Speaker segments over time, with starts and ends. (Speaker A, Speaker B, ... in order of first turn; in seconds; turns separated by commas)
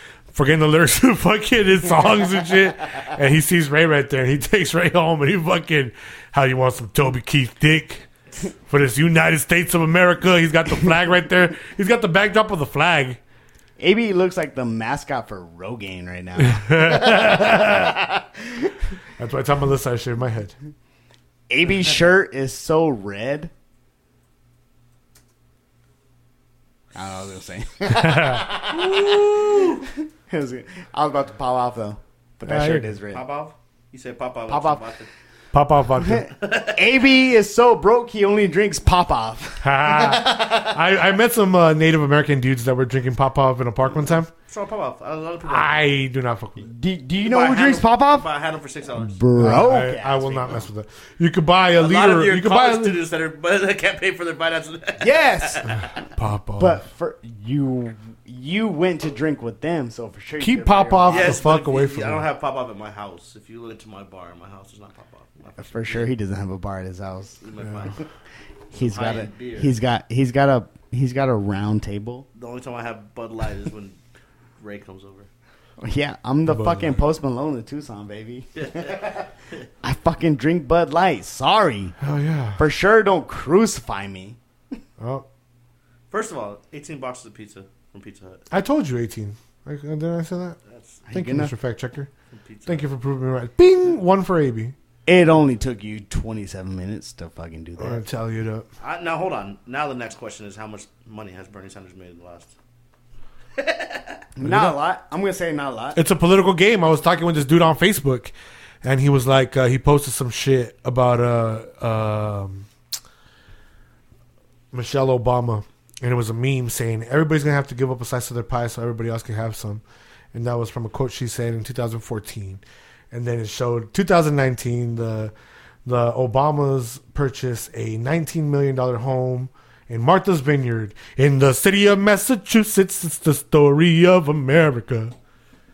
Speaker A: 0.3-8.1, Speaker A: 8.7-13.2, Speaker B: 13.8-18.7, Speaker A: 16.4-17.9, Speaker A: 19.2-20.5, Speaker B: 21.5-23.5, Speaker B: 26.9-33.2, Speaker A: 27.9-28.4, Speaker C: 28.7-29.9, Speaker A: 32.5-32.9, Speaker C: 33.1-35.1, Speaker B: 34.5-34.8, Speaker A: 35.5-36.3, Speaker B: 36.0-40.7, Speaker C: 36.4-36.8, Speaker A: 39.6-44.3, Speaker C: 44.5-45.8, Speaker A: 45.5-46.7, Speaker B: 46.6-48.2, Speaker C: 47.2-49.1, Speaker B: 49.0-50.7, Speaker A: 49.4-53.0, Speaker C: 51.8-55.8, Speaker B: 55.0-55.8, Speaker A: 55.7-56.8, Speaker B: 56.6-61.4, Speaker A: 60.4-62.2, Speaker C: 61.1-66.1, Speaker B: 65.6-67.4, Speaker C: 67.4-68.0, Speaker B: 68.7-72.2, Speaker C: 68.7-69.7, Speaker C: 72.3-74.0, Speaker C: 74.6-75.3, Speaker B: 75.8-79.2, Speaker A: 76.5-77.0, Speaker C: 78.5-79.2, Speaker B: 79.8-81.9, Speaker A: 82.0-82.6, Speaker B: 82.6-84.4, Speaker A: 85.0-85.2, Speaker C: 86.1-88.4, Speaker A: 88.5-90.6, Speaker C: 90.7-91.0, Speaker B: 91.1-91.5, Speaker A: 91.1-92.1, Speaker C: 92.3-92.9, Speaker A: 92.7-94.7, Speaker B: 95.0-98.0, Speaker A: 97.8-98.7, Speaker C: 98.8-102.5, Speaker C: 103.6-104.2, Speaker B: 104.3-106.0, Speaker A: 104.4-104.8, Speaker A: 105.9-112.7, Speaker A: 114.7-119.8, Speaker A: 120.3-125.3, Speaker A: 125.8-135.1